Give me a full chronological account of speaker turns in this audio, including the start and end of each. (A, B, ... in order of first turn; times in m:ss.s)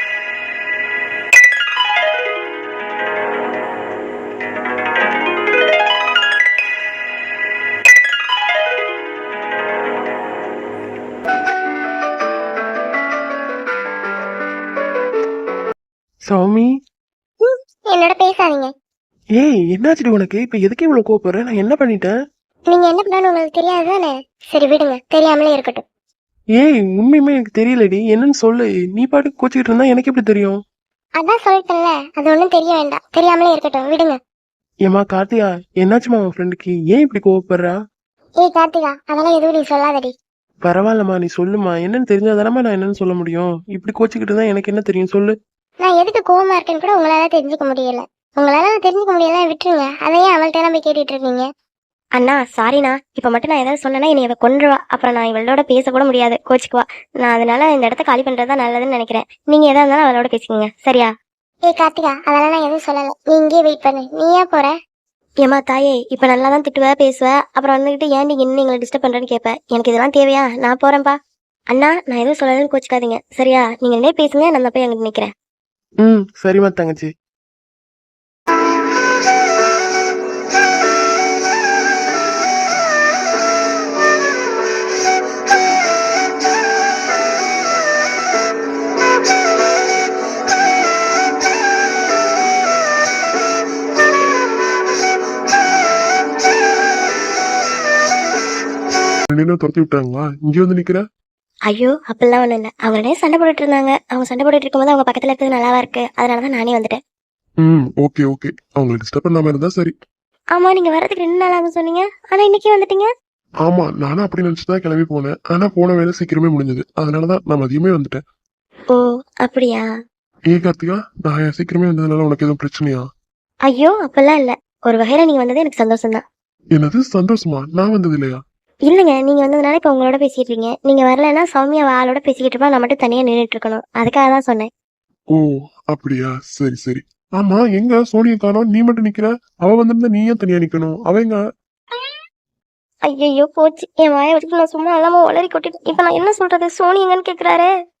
0:16.3-0:16.7 A
0:17.4-0:18.7 B
0:19.4-0:22.1 A
0:22.7-0:25.8 B
0:26.6-0:30.6 A
0:31.2-0:34.2 B
0:34.9-0:37.8 A
0:38.4-0:40.1 B
0:40.6-0:45.3 A
0:45.8-0:51.4 B
0:52.2-1:01.1 C
1:01.7-1:04.7 B
1:05.4-1:11.2 C
1:11.7-1:15.3 C
1:16.0-1:17.1 A
1:39.3-1:41.0 D
1:41.7-1:47.0 C
1:47.6-1:49.9 D
1:50.5-1:53.1 C
1:53.6-1:58.2 D
1:58.9-1:59.9 C
2:00.5-2:03.0 D
2:03.6-2:06.2 C
2:06.7-2:08.4 D
2:08.9-2:14.7 C
2:15.3-2:21.4 D
2:23.1-2:27.7 C